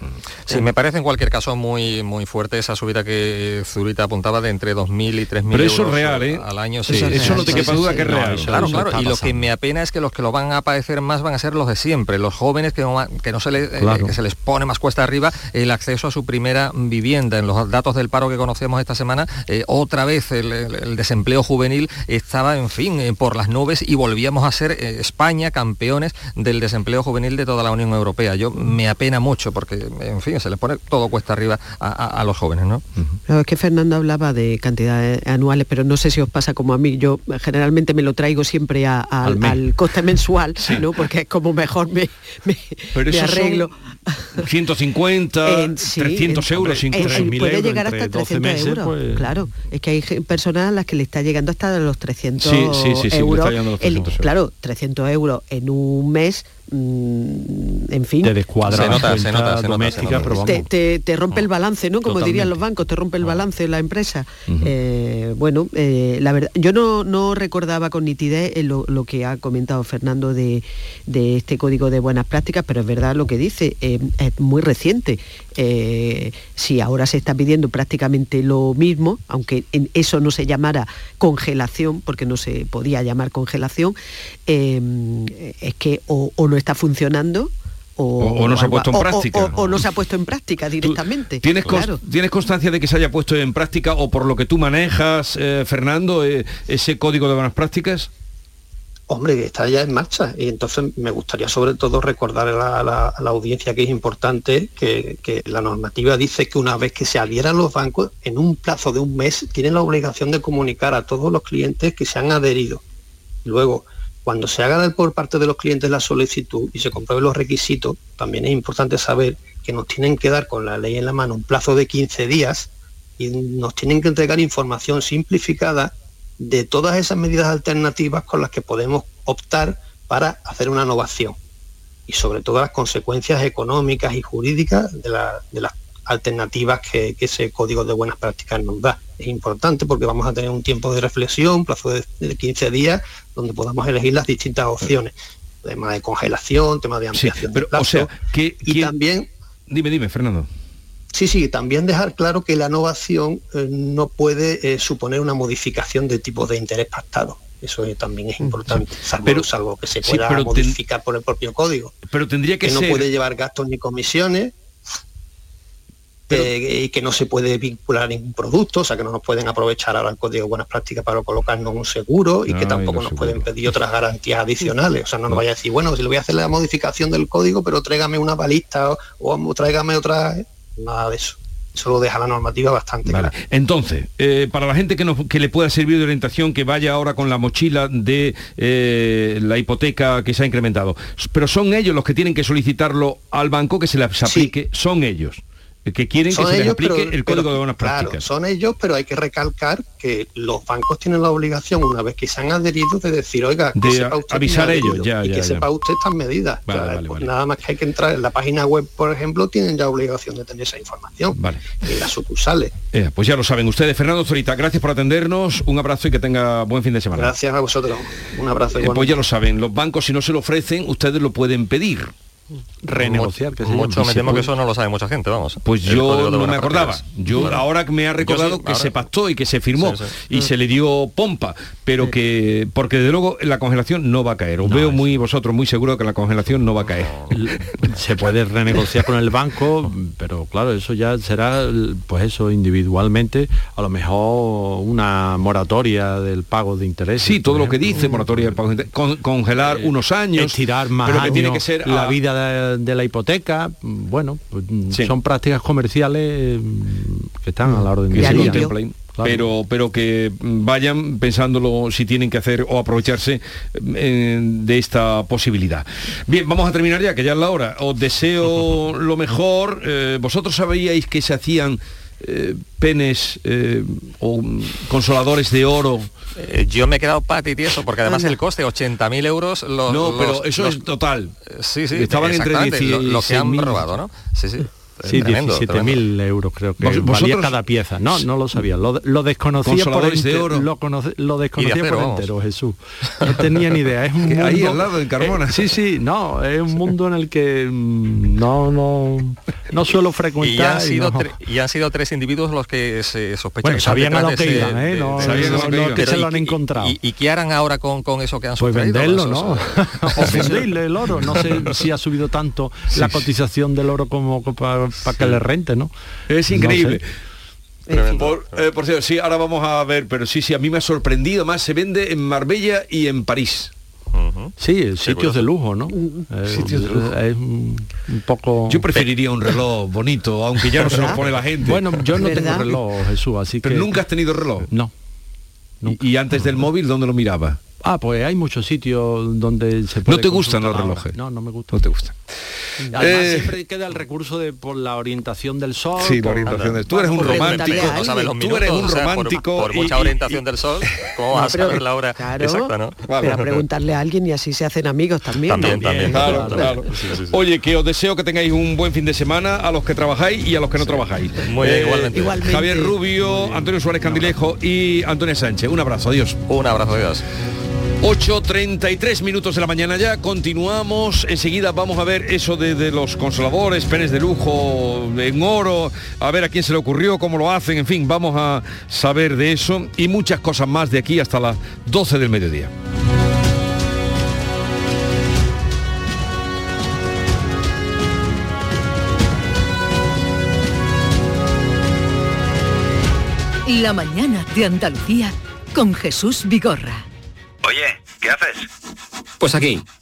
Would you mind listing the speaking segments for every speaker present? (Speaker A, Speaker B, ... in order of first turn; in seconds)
Speaker A: 0.5-32.9, 58.7-60.6, 223.0-227.6, 228.2-228.9, 229.8-230.1, 276.4-280.8, 281.5-286.0, 291.6-292.3, 300.4-310.6, 317.9-318.6, 324.1-324.5, 325.0-325.4, 346.5-353.0, 355.5-356.6, 360.9-362.4, 366.5-367.2
Speaker B: 5.5-8.8, 40.6-40.9, 42.9-43.7, 44.4-47.4, 52.4-54.3, 88.2-89.9, 90.8-98.1, 147.1-148.9, 149.7-150.5, 158.7-159.5, 160.0-160.8, 162.1-163.1, 172.5-173.7, 183.1-198.2, 203.8-205.7, 206.7-207.3, 211.3-211.9, 212.9-217.3, 218.8-222.1, 225.6-237.3, 247.2-252.2, 258.1-276.2, 279.9-281.3, 281.9-283.9, 286.8-287.6, 289.6-290.7, 294.3-295.7, 305.2-306.2, 313.0-313.2, 316.3-317.0, 318.0-323.7, 326.5-327.1, 328.7-332.0, 333.6-334.7, 335.9-337.6, 340.1-341.1, 341.7-343.5, 346.0-350.4, 353.1-353.6, 355.6-366.4, 368.0-382.7
Speaker C: 6.9-8.0, 33.3-44.4, 45.4-59.1, 60.0-84.0, 84.5-92.0, 258.1-258.8, 317.9-318.3, 326.0-326.2, 330.8-331.2, 332.1-332.8, 347.2-348.3, 351.3-356.7, 362.1-362.9
Speaker D: 6.9-9.5, 13.8-14.2, 39.2-39.6, 46.9-49.5, 58.2-60.7, 62.0-62.6, 222.8-224.5, 234.6-235.2, 237.3-248.6, 249.6-259.5, 285.1-301.4, 303.6-307.0, 308.6-315.9, 316.5-317.0, 324.6-328.8, 331.6-334.1, 334.6-334.9, 335.8-336.7, 337.8-341.8, 342.9-347.8, 355.6-356.8, 363.2-364.4
Speaker E: 99.1-112.8, 113.4-131.4, 132.1-145.1, 145.6-149.3, 151.2-161.9, 162.6-164.5, 166.3-183.3, 196.3-212.7, 217.1-219.2
Speaker F: 393.7-397.1